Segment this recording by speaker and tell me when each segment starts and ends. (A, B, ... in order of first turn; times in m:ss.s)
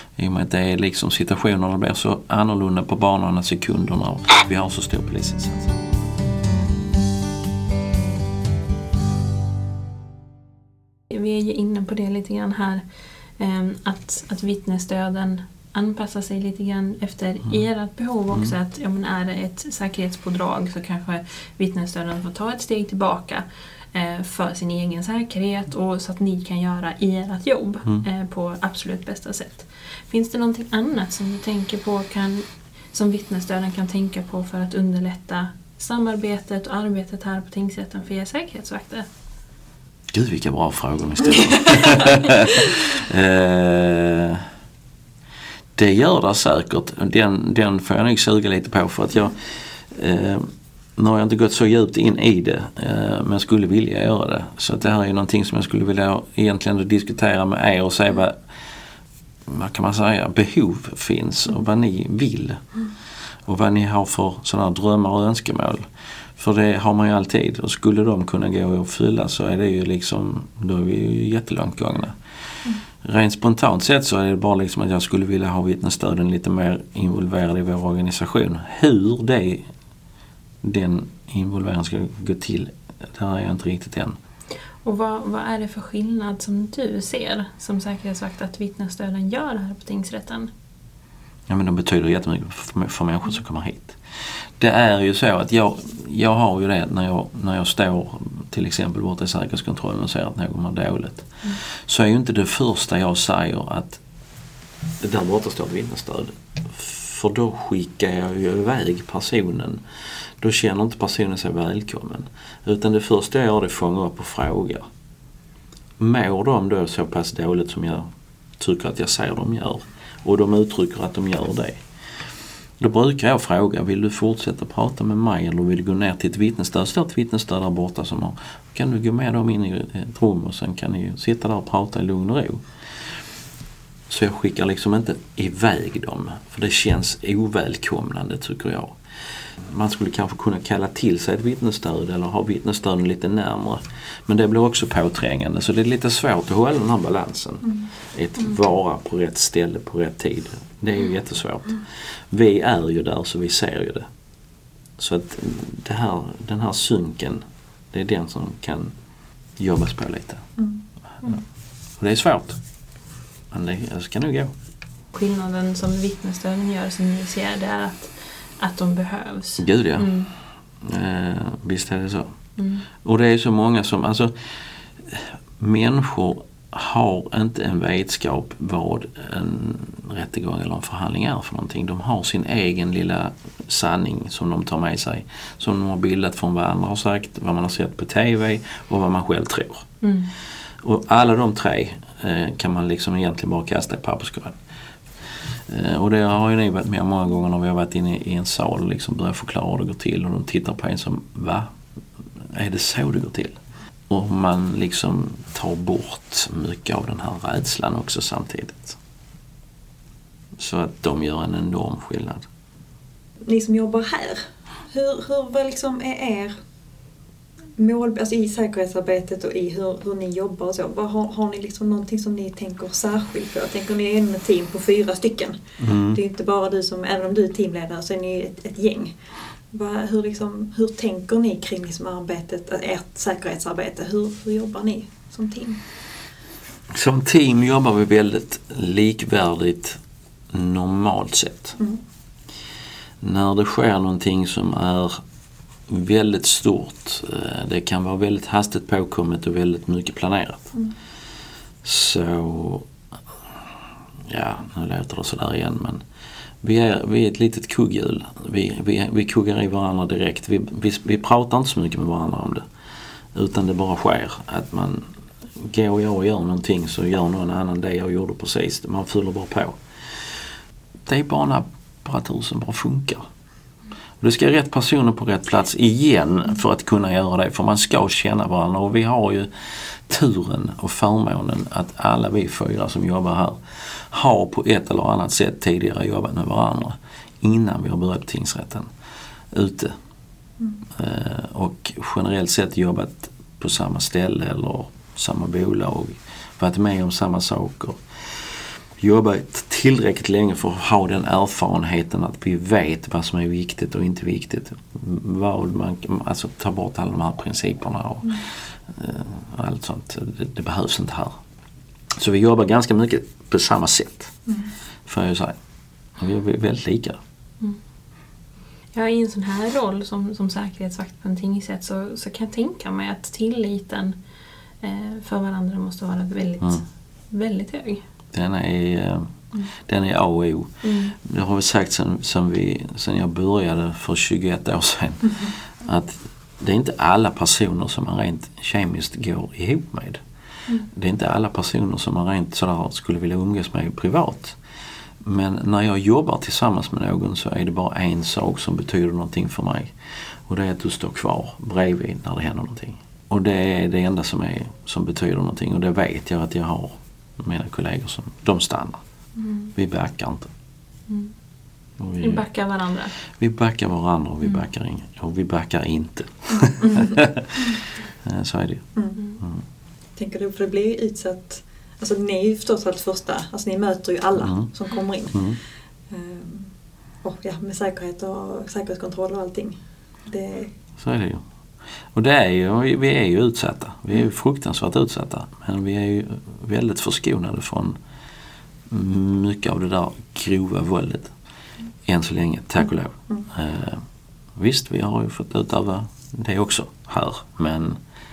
0:00.2-0:05.7 A
0:11.1-0:12.8 B
0:13.4-0:39.1 B
0:40.1-0:44.4 A
0:45.8-0:58.4 A
0:59.5-1:02.6 A
1:03.5-1:12.2 A
1:13.0-1:19.7 A
1:20.6-1:24.2 A
1:24.8-1:30.5 B
1:31.5-1:34.0 A
1:34.6-1:44.0 A
1:45.0-1:49.8 A
1:50.4-1:54.8 A
1:56.0-1:58.1 A
1:58.6-2:01.8 A
2:02.8-2:12.6 A
2:14.1-2:19.0 A
2:19.6-2:34.1 A
2:35.0-2:38.9 A
2:39.6-2:40.4 A
2:40.6-2:40.8 C
2:42.0-2:42.6 A
2:43.5-2:44.5 A
2:45.1-2:50.3 B
2:49.6-2:50.1 A
2:50.8-2:52.3 A
2:52.6-2:52.8 B
2:53.0-2:54.3 A
2:55.0-3:09.9 A
3:10.0-3:10.3 B
3:10.8-3:14.6 A
3:15.7-3:21.8 A
3:22.4-3:23.6 A
3:24.1-3:29.0 A
3:30.6-3:32.4 A
3:33.5-3:36.6 C
3:37.8-3:49.2 C
3:45.8-3:46.2 A
3:49.7-3:55.8 C
3:56.9-4:00.0 A
4:00.5-4:01.8 A
4:03.2-4:05.2 A
4:05.9-4:10.7 A
4:11.8-4:12.9 A
4:14.3-4:16.0 A
4:16.6-4:22.7 A
4:23.3-4:29.8 A
4:31.1-4:33.2 A
4:34.2-4:48.9 A
4:49.5-4:50.0 A
4:50.9-5:11.4 A
5:12.2-5:14.3 A
5:14.5-5:14.7 C
5:15.1-5:15.6 A
5:16.2-5:17.2 A
5:18.9-5:24.2 B
5:24.8-5:28.0 B
5:28.3-5:40.2 A
5:30.8-5:31.2 B
5:40.9-5:44.6 A
5:45.2-5:49.9 A
5:50.5-5:59.0 A
5:59.4-5:59.7 B
5:59.8-6:00.5 A
6:02.0-6:02.4 A
6:02.2-6:03.1 B
6:03.3-6:08.9 A
6:06.6-6:07.3 C
6:09.0-6:09.2 C
6:10.2-6:15.5 C
6:14.4-6:14.7 A
6:15.3-6:15.6 A
6:16.1-6:16.7 C
6:17.2-6:20.7 C
6:21.0-6:21.4 A
6:22.1-6:28.0 A
6:28.9-6:31.3 A
6:32.0-6:34.0 A
6:34.6-6:38.0 A